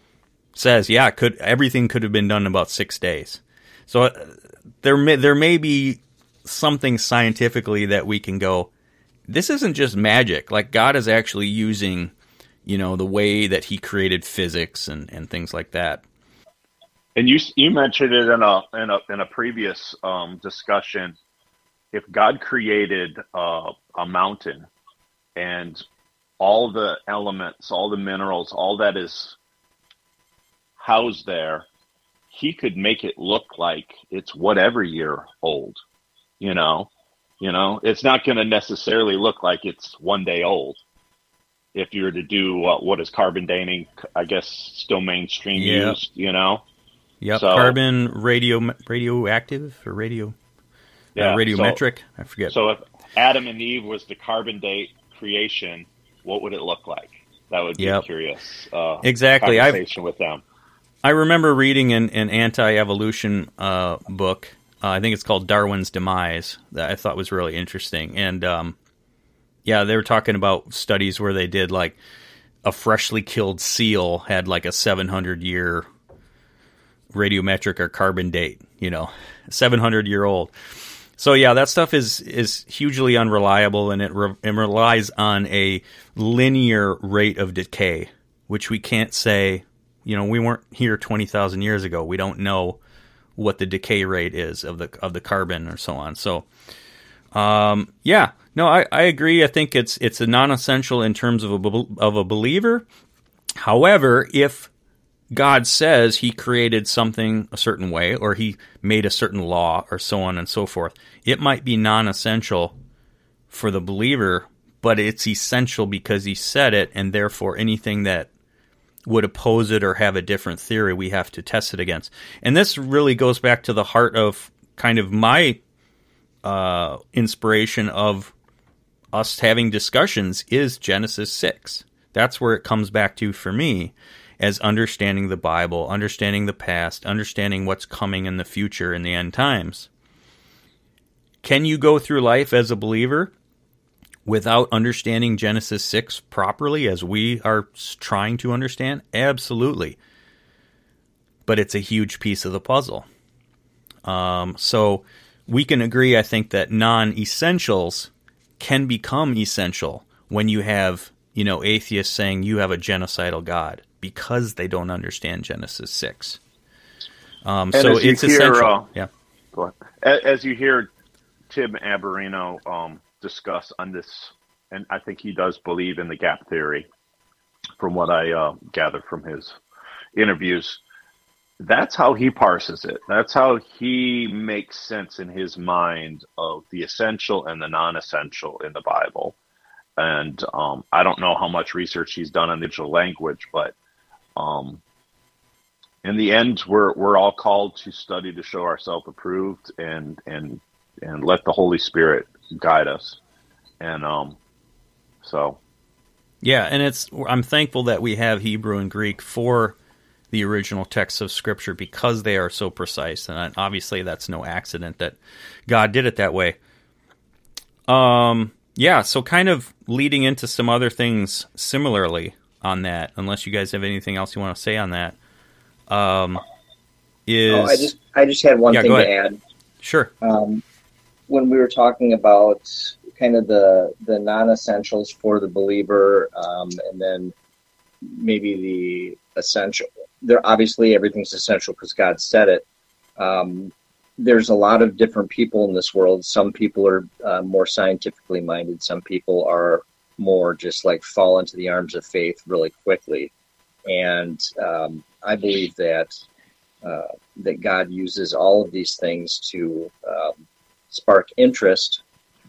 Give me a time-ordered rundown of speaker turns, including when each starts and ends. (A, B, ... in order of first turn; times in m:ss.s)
0:00.5-0:08.7 A
0:09.3-0:12.1 A
0:12.6-0:16.0 A
0:17.2-0:21.2 B
0:21.9-0:24.6 B
0:25.4-0:25.8 B
0:26.4-0:29.4 B
0:30.8-0:31.7 B
0:32.3-0:35.8 B
0:36.4-0:36.9 B
0:37.4-0:40.8 B
0:41.7-0:46.6 B
0:45.6-0:46.0 A
0:47.2-0:50.3 A
0:47.3-0:47.8 B
0:51.1-0:51.8 B
0:51.1-0:52.5 A
0:52.5-1:00.4 B
0:57.8-0:58.0 A
0:59.0-0:59.8 A
1:01.0-1:08.8 A
1:09.6-1:12.0 A
1:12.6-1:15.9 A
1:17.1-1:20.5 A
1:21.2-1:32.8 A
1:33.4-1:36.4 A
1:37.3-1:42.8 A
1:43.6-1:44.7 A
1:45.3-1:52.7 A
1:53.5-1:58.3 A
1:59.0-2:05.6 A
2:06.4-2:08.3 A
2:09.1-2:19.9 A
2:21.4-2:23.3 A
2:24.2-2:30.0 A
2:31.5-2:33.0 A
2:34.0-2:46.4 A
2:47.4-2:49.1 A
2:47.7-2:48.9 B
2:49.5-2:50.9 B
2:51.5-2:56.9 B
2:57.8-2:59.6 B
3:00.1-3:00.8 B
3:01.6-3:09.4 B
3:10.0-3:13.7 B
3:14.4-3:14.8 B
3:16.0-3:23.2 B
3:23.8-3:24.4 B
3:25.2-3:25.6 B
3:26.4-3:29.8 A
3:30.3-3:36.6 A
3:37.9-3:45.2 A
3:45.9-3:46.4 A
3:47.3-3:47.9 A
3:47.5-3:49.4 C
3:48.7-3:49.1 A
3:49.8-3:50.1 A
3:50.2-3:50.6 C
3:51.3-3:57.3 C
3:58.0-4:02.6 C
4:03.2-4:13.3 C
4:13.8-4:16.1 C
4:16.8-4:20.4 C
4:20.9-4:22.0 C